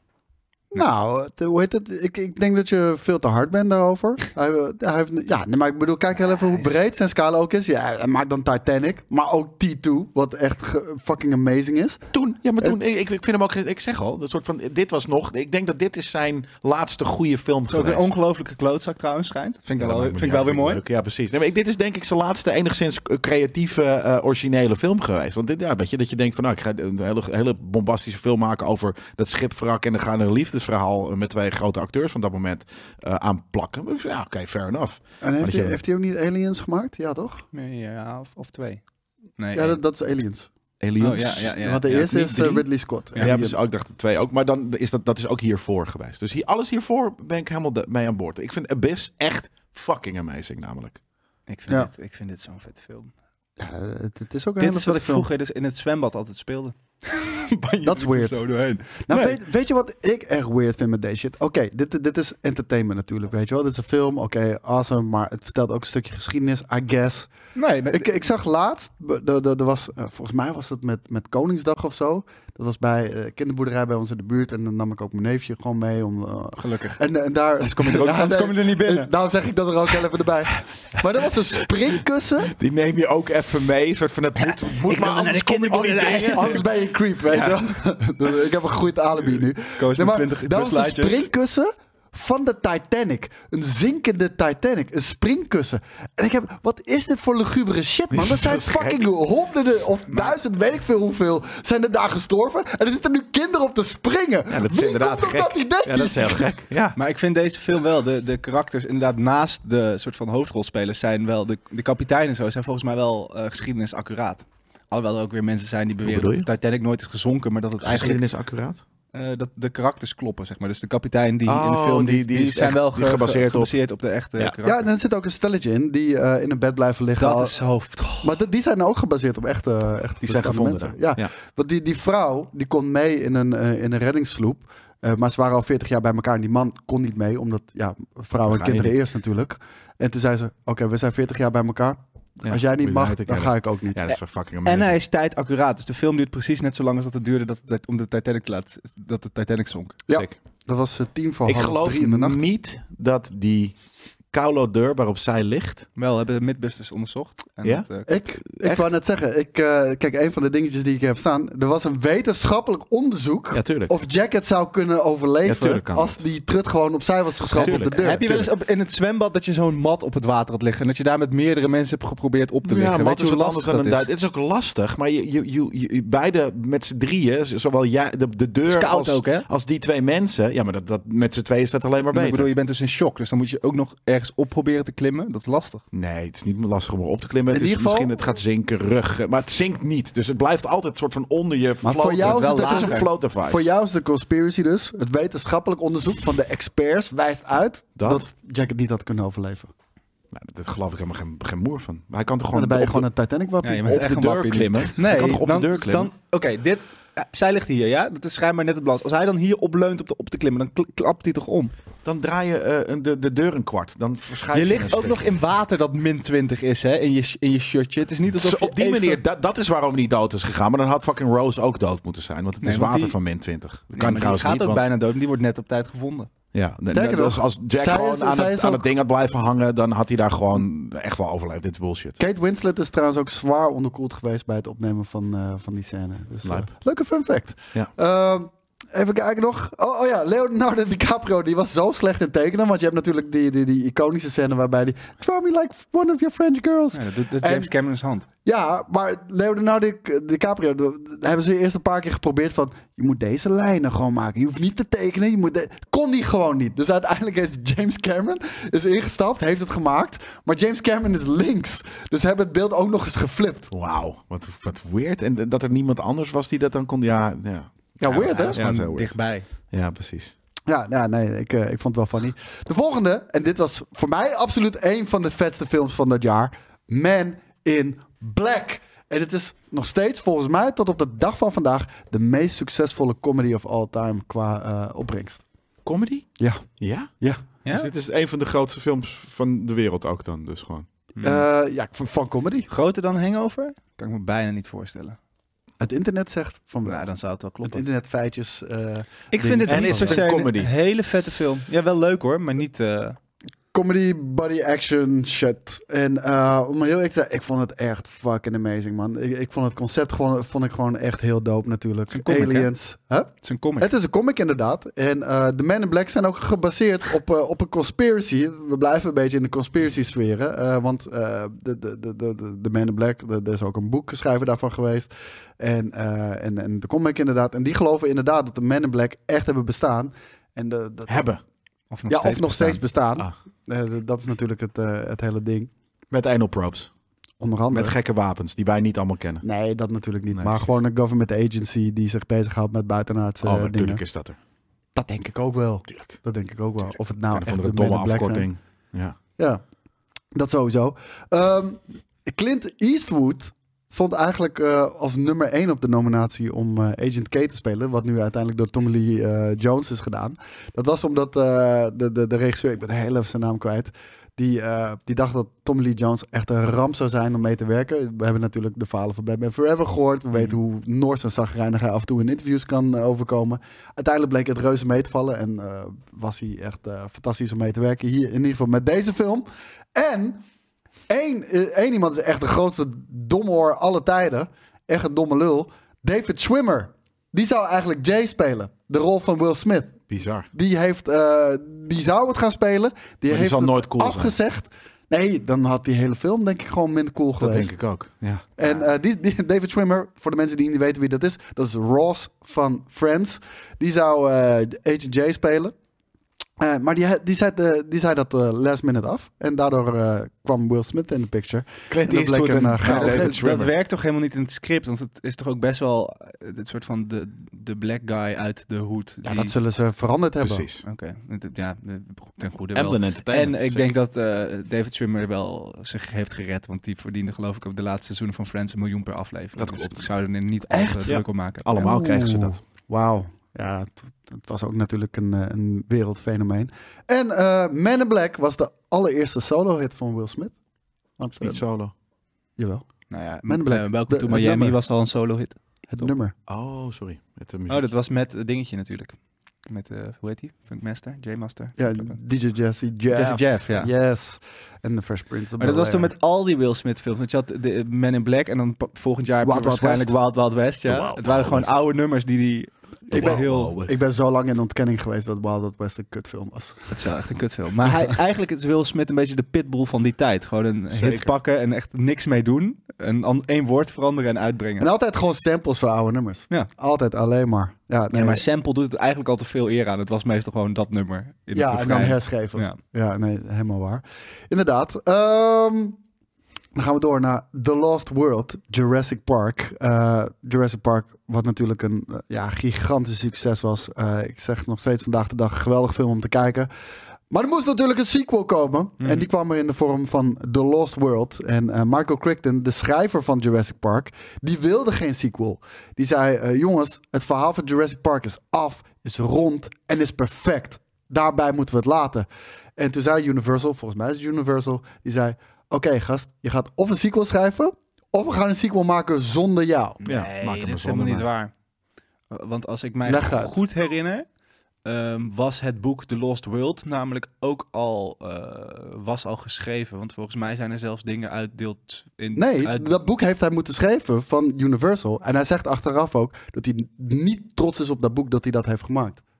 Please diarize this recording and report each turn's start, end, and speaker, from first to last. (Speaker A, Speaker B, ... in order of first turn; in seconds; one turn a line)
Speaker A: 0.7-12.0
Speaker B: 12.1-18.1
Speaker C: 17.7-20.8
Speaker B: 19.8-35.8
Speaker A: 35.2-37.4
Speaker C: 37.5-38.8
Speaker C: 39.4-39.8
Speaker A: 39.5-40.5
Speaker B: 40.8-41.6
Speaker C: 41.0-43.4
Speaker A: 41.6-43.5
Speaker B: 43.2-51.0
Speaker C: 51.5-53.1
Speaker A: 53.6-55.3
Speaker C: 54.6-59.2
Speaker A: 57.8-67.3
Speaker C: 67.5-68.1
Speaker A: 67.9-82.5
Speaker C: 76.6-77.0
Speaker C: 77.6-79.1
Speaker B: 82.4-86.7
Speaker C: 84.4-86.6
Speaker A: 86.2-106.5
Speaker B: 87.3-87.6
Speaker C: 89.8-91.3
Speaker B: 98.1-99.0
Speaker B: 104.5-107.0
Speaker C: 107.0-118.2
Speaker B: 116.0-116.5
Speaker B: 117.8-118.8
Speaker C: 119.1-124.9
Speaker B: 121.4-123.7
Speaker A: 124.6-127.5
Speaker C: 127.2-128.3
Speaker A: 128.2-144.0
Speaker B: 130.2-131.3
Speaker B: 138.4-138.9
Speaker B: 142.4-144.9
Speaker C: 144.1-150.0
Speaker A: 150.1-152.4
Speaker B: 151.4-153.8
Speaker B: 154.3-155.8
Speaker C: 155.9-158.2
Speaker A: 158.1-168.2
Speaker B: 158.5-158.9
Speaker B: 163.5-163.9
Speaker B: 165.4-166.2
Speaker C: 167.5-174.1
Speaker B: 167.6-168.5
Speaker B: 172.6-182.5
Speaker C: 178.7-179.5
Speaker C: 182.1-185.8
Speaker B: 185.9-193.7
Speaker A: 187.5-188.1
Speaker A: 191.8-199.7
Speaker C: 192.2-193.1
Speaker B: 198.0-198.3
Speaker B: 200.3-203.1
Speaker A: 202.5-204.0
Speaker C: 203.6-211.7
Speaker B: 203.8-206.1
Speaker B: 212.0-215.3
Speaker C: 214.5-219.2
Speaker B: 218.3-224.9
Speaker C: 222.6-223.2
Speaker C: 223.9-226.3
Speaker B: 226.5-232.2
Speaker A: 226.9-228.8
Speaker A: 232.2-247.7
Speaker C: 246.9-248.3
Speaker A: 248.4-263.7
Speaker B: 263.7-269.2
Speaker A: 268.0-268.6
Speaker C: 268.1-269.5
Speaker B: 269.7-270.4
Speaker A: 270.7-285.4
Speaker B: 285.8-287.1
Speaker A: 286.4-286.7
Speaker C: 287.6-287.9
Speaker B: 287.7-290.9
Speaker C: 291.2-291.4
Speaker A: 291.2-292.7
Speaker C: 292.7-295.2
Speaker A: 295.8-297.0
Speaker C: 296.8-297.8
Speaker A: 297.6-300.2
Speaker C: 299.3-303.2
Speaker B: 299.6-300.7
Speaker A: 303.7-331.3
Speaker C: 312.1-312.7
Speaker C: 313.4-313.9
Speaker B: 331.1-331.4
Speaker C: 331.9-332.8
Speaker A: 332.1-335.7
Speaker B: 336.1-336.9
Speaker A: 337.4-337.9
Speaker B: 337.7-339.4
Speaker A: 339.4-344.0
Speaker B: 340.3-340.7
Speaker B: 343.4-344.4
Speaker A: 344.9-348.5
Speaker B: 347.3-349.2
Speaker A: 350.3-380.4
Speaker A: 381.1-397.7
Speaker B: 390.1-390.5
Speaker B: 393.3-394.3
Speaker B: 397.4-398.4
Speaker A: 398.6-405.7
Speaker A: 406.6-413.4
Speaker B: 411.9-413.7
Speaker C: 412.8-419.5
Speaker A: 419.2-420.6
Speaker B: 420.4-420.8
Speaker C: 420.8-431.9
Speaker B: 422.7-423.9
Speaker B: 429.6-430.1
Speaker A: 430.7-431.1
Speaker B: 431.1-432.6
Speaker A: 431.7-440.5
Speaker A: 441.2-441.6
Speaker B: 441.4-441.9
Speaker A: 442.6-442.8
Speaker C: 443.1-445.6
Speaker A: 443.4-444.8
Speaker A: 445.9-446.3
Speaker B: 446.5-447.9
Speaker C: 447.7-452.2
Speaker A: 451.8-456.1
Speaker C: 453.1-453.9
Speaker B: 453.1-453.4
Speaker C: 455.6-463.7
Speaker A: 459.4-460.1
Speaker B: 460.9-461.8
Speaker B: 463.1-464.0
Speaker A: 463.1-466.9
Speaker C: 466.9-474.9
Speaker B: 470.9-471.3
Speaker A: 474.8-478.4
Speaker C: 478.1-482.8
Speaker A: 481.5-486.0
Speaker A: 486.7-496.7
Speaker A: 497.3-520.0
Speaker C: 499.0-499.3
Speaker C: 520.0-521.5
Speaker B: 520.0-521.3
Speaker C: 522.3-524.2
Speaker A: 523.0-523.6
Speaker C: 524.8-532.9
Speaker A: 532.3-539.2